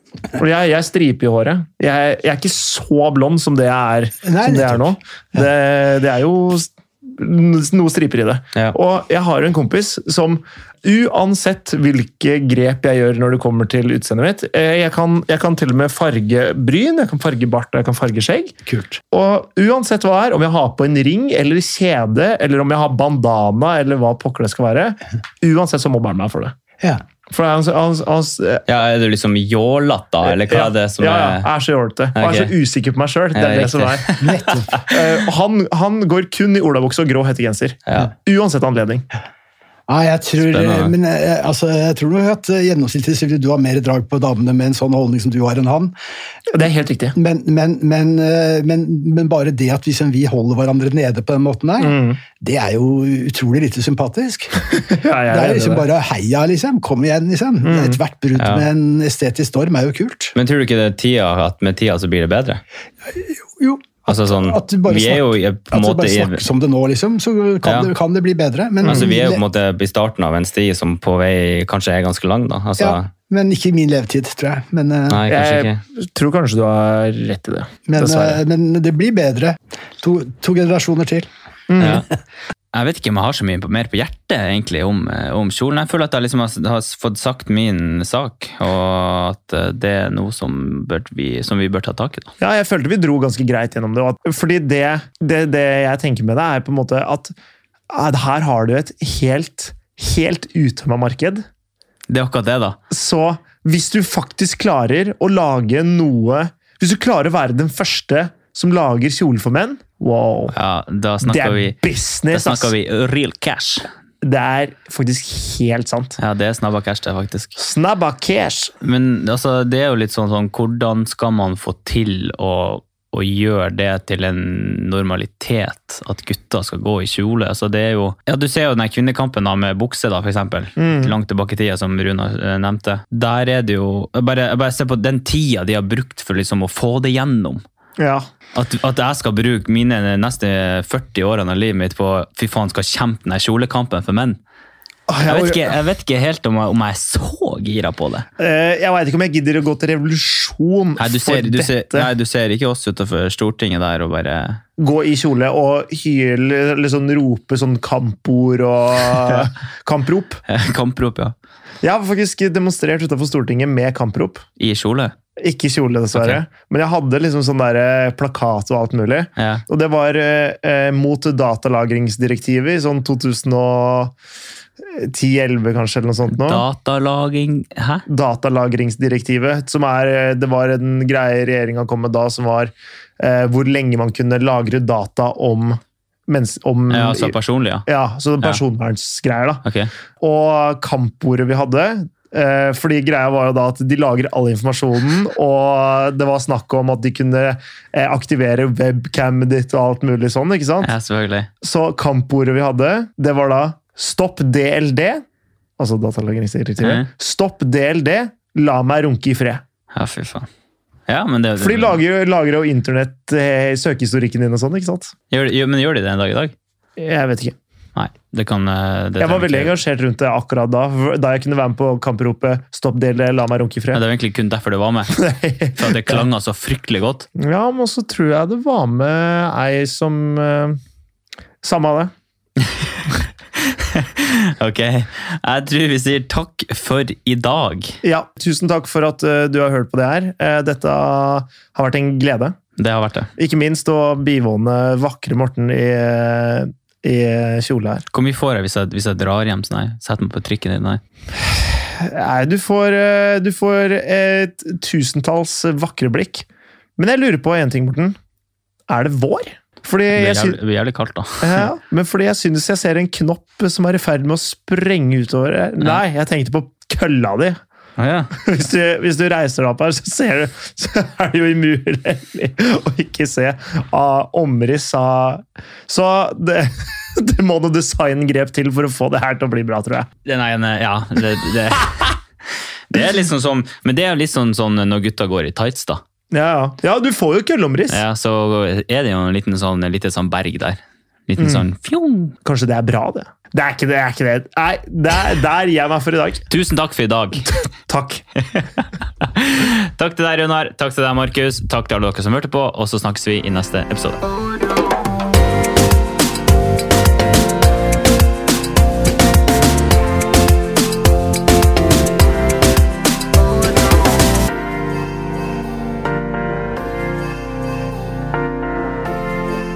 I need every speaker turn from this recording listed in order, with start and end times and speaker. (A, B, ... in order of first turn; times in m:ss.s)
0:00.4-0:18.6 A
0:04.2-0:05.0 B
0:18.7-0:19.0 B
0:19.1-0:26.6 A
0:27.3-0:28.6 A
0:28.7-0:31.5 C
0:30.2-0:34.2 A
0:32.2-0:32.5 C
0:33.3-0:34.8 C
0:34.2-0:34.8 B
0:34.9-0:39.0 A
0:37.9-0:38.1 C
0:39.9-0:45.9 B
0:40.4-0:40.9 C
0:46.5-0:47.2 A
0:47.2-0:54.6 B
0:51.8-0:52.2 A
0:54.7-0:55.9 A
0:55.3-1:00.4 B
0:57.6-0:58.0 A
0:58.4-0:58.6 C
1:00.4-1:02.6 C
1:03.1-1:09.4 B
1:04.1-1:06.4 C
1:07.6-1:07.9 C
1:08.8-1:13.1 C
1:12.8-1:15.3 B
1:15.1-1:15.8 C
1:15.3-1:18.4 A
1:17.9-1:21.3 B
1:21.7-1:22.0 A
1:21.8-1:22.1 C
1:22.7-1:32.3 C
1:32.4-1:37.4 A
1:37.9-1:41.4 A
1:42.1-1:42.8 C
1:42.9-1:50.5 A
1:50.5-1:51.8 C
1:51.2-1:52.7 A
1:52.3-1:53.8 C
1:54.2-1:56.2 A
1:56.2-1:57.6 C
1:57.6-1:58.7 A
1:58.8-2:17.6 C
2:10.8-2:11.2 A
2:18.0-2:18.3 A
2:18.5-2:24.4 C
2:25.1-2:25.7 A
2:25.3-2:28.3 C
2:28.4-2:32.1 A
2:31.0-2:34.6 C
2:34.8-2:40.4 A
2:40.5-2:41.4 C
2:41.8-2:44.4 A
2:44.6-2:45.1 C
2:45.4-2:54.2 A
2:46.1-2:46.4 C
2:49.4-2:49.6 C
2:54.8-2:56.6 A
2:56.3-2:58.0 C
2:58.1-3:07.4 A
3:06.9-3:07.9 C
3:07.9-3:09.6 A
3:09.6-3:09.9 C
3:10.2-3:20.9 A
3:20.8-3:21.5 C
3:21.6-3:25.2 A
3:25.8-3:29.6 A
3:26.8-3:27.1 C
3:29.9-3:30.5 C
3:31.1-3:32.0 C
3:31.6-3:35.1 A
3:35.3-3:36.5 C
3:37.0-3:37.6 A
3:38.0-3:39.8 C
3:39.2-3:44.0 A
3:43.9-3:45.2 C
3:45.2-3:46.2 A
3:45.8-3:47.3 C
3:47.4-3:50.8 A
3:51.6-3:52.1 A
3:52.6-3:58.0 C
3:58.0-4:02.6 A
4:02.8-4:03.3 C
4:03.4-4:08.0 A
4:08.1-4:11.0 C
4:11.5-4:16.4 A
4:17.0-4:18.2 A
4:18.9-4:20.6 A
4:20.1-4:21.7 C
4:21.4-4:27.6 A
4:28.0-4:28.3 C
4:28.4-4:40.1 A
4:40.2-4:42.2 C
4:42.9-4:46.0 C
4:46.3-4:48.0 A
4:47.9-4:52.4 C
4:51.4-4:51.7 A
4:52.4-4:56.4 A
4:56.5-4:57.5 C
4:57.5-4:58.2 A
4:59.2-5:04.2 C